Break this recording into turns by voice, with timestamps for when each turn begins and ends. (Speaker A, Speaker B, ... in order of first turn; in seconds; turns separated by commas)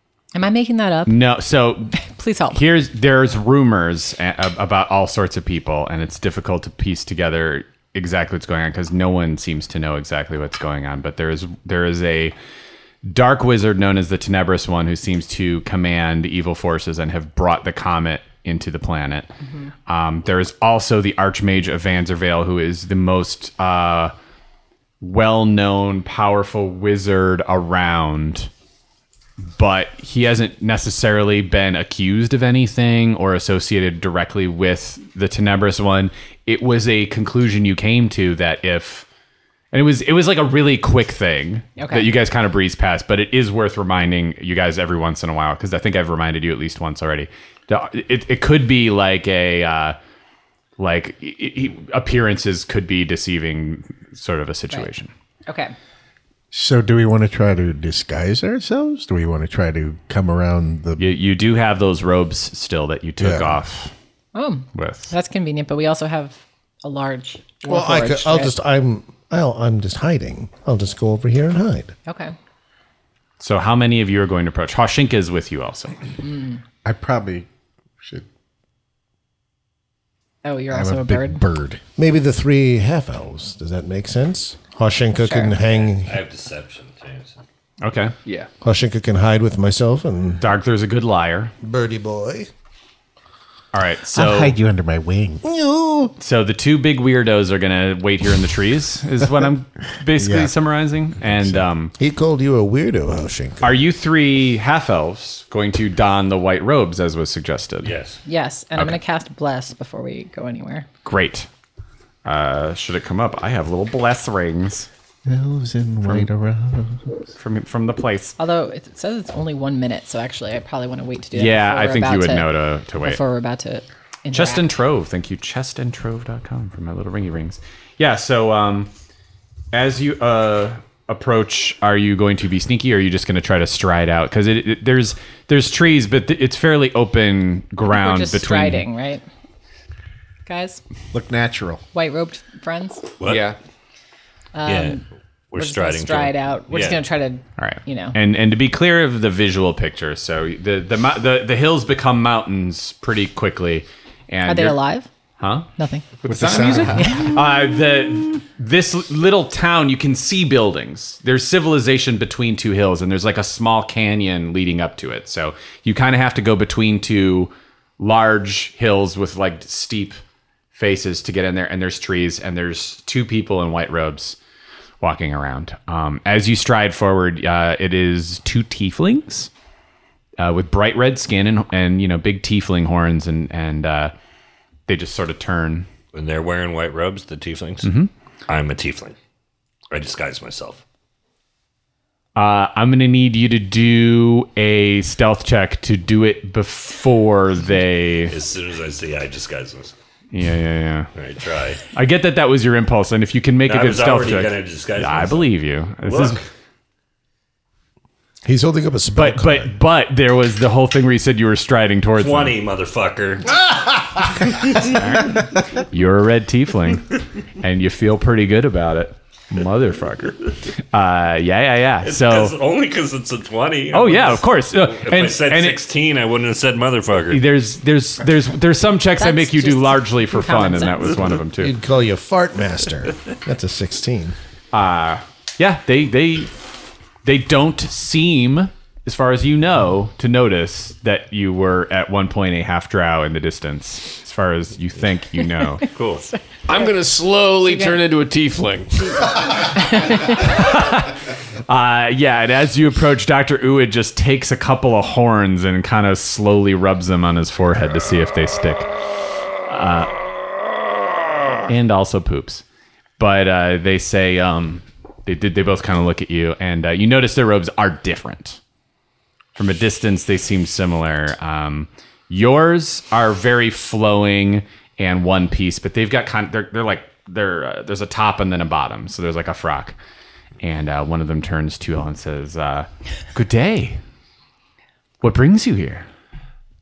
Speaker A: 0.3-1.2, Speaker B: 1.1-1.9, Speaker A: 2.0-2.6, Speaker B: 2.5-12.3, Speaker B: 13.0-19.3, Speaker B: 19.9-24.1, Speaker B: 25.0-28.5, Speaker B: 29.5-39.0, Speaker B: 39.7-50.0, Speaker A: 41.8-42.1, Speaker B: 50.8-55.1, Speaker A: 55.5-55.7, Speaker C: 56.5-61.0, Speaker B: 61.0-63.9, Speaker C: 63.2-63.5, Speaker A: 64.3-68.5, Speaker B: 64.7-65.1, Speaker D: 67.6-71.9, Speaker A: 72.1-72.3, Speaker B: 73.4-76.0, Speaker A: 76.2-76.6, Speaker C: 76.8-77.5, Speaker A: 80.4-81.4, Speaker C: 80.7-81.8, Speaker D: 82.0-86.2, Speaker A: 85.2-85.5, Speaker E: 85.8-87.4, Speaker B: 87.8-88.1, Speaker D: 88.6-90.4, Speaker B: 90.4-91.5, Speaker D: 91.6-92.5, Speaker B: 93.7-94.6, Speaker C: 94.1-95.4, Speaker D: 95.4-96.1, Speaker B: 96.2-101.9, Speaker C: 100.2-100.5, Speaker D: 102.0-103.7, Speaker B: 103.6-107.9, Speaker E: 107.8-108.2, Speaker A: 108.2-110.9, Speaker B: 111.0-111.5, Speaker B: 112.2-114.9, Speaker C: 115.2-117.1, Speaker B: 117.4-118.3, Speaker A: 118.4-124.7, Speaker B: 121.3-123.2, Speaker B: 124.3-128.9, Speaker B: 129.7-138.9, Speaker A: 137.9-139.2, Speaker A: 140.4-140.8, Speaker C: 141.1-141.8, Speaker A: 141.9-143.1, Speaker E: 143.2-143.5, Speaker F: 143.2-143.6, Speaker A: 144.5-145.0, Speaker E: 144.7-145.0, Speaker E: 145.5-147.0, Speaker A: 145.6-148.2, Speaker B: 147.6-154.8, Speaker A: 154.4-155.1, Speaker B: 155.4-155.7, Speaker A: 155.8-156.1, Speaker C: 156.2-157.3, Speaker B: 156.3-170.2, Speaker F: 156.4-156.8, Speaker A: 156.9-157.3, Speaker B: 170.7-174.4, Speaker B: 175.0-179.5, Speaker B: 180.4-184.1, Speaker B: 184.9-185.9, Speaker E: 186.1-187.9, Speaker B: 187.8-188.1, Speaker E: 188.5-189.1, Speaker E: 189.9-190.8, Speaker B: 192.3-198.3, Speaker E: 198.3-199.9, Speaker B: 200.3-201.1, Speaker E: 201.1-201.8, Speaker B: 201.9-206.4, Speaker E: 203.6-205.5, Speaker E: 206.0-206.4, Speaker D: 208.4-209.7, Speaker B: 209.1-212.6, Speaker E: 212.2-213.7, Speaker E: 214.5-214.9, Speaker B: 214.8-217.1, Speaker B: 217.6-222.6, Speaker E: 222.0-227.4, Speaker B: 223.9-225.8, Speaker B: 227.3-231.7, Speaker A: 229.2-231.3, Speaker D: 231.6-234.3, Speaker B: 234.7-245.9, Speaker E: 245.9-246.2, Speaker A: 246.3-246.9, Speaker F: 246.7-249.2, Speaker A: 247.5-248.0, Speaker A: 249.0-250.6, Speaker B: 250.4-258.9, Speaker B: 259.6-260.2, Speaker B: 261.6-262.6, Speaker B: 263.2-268.6, Speaker B: 269.6-279.9, Speaker B: 280.6-284.0, Speaker B: 285.2-286.1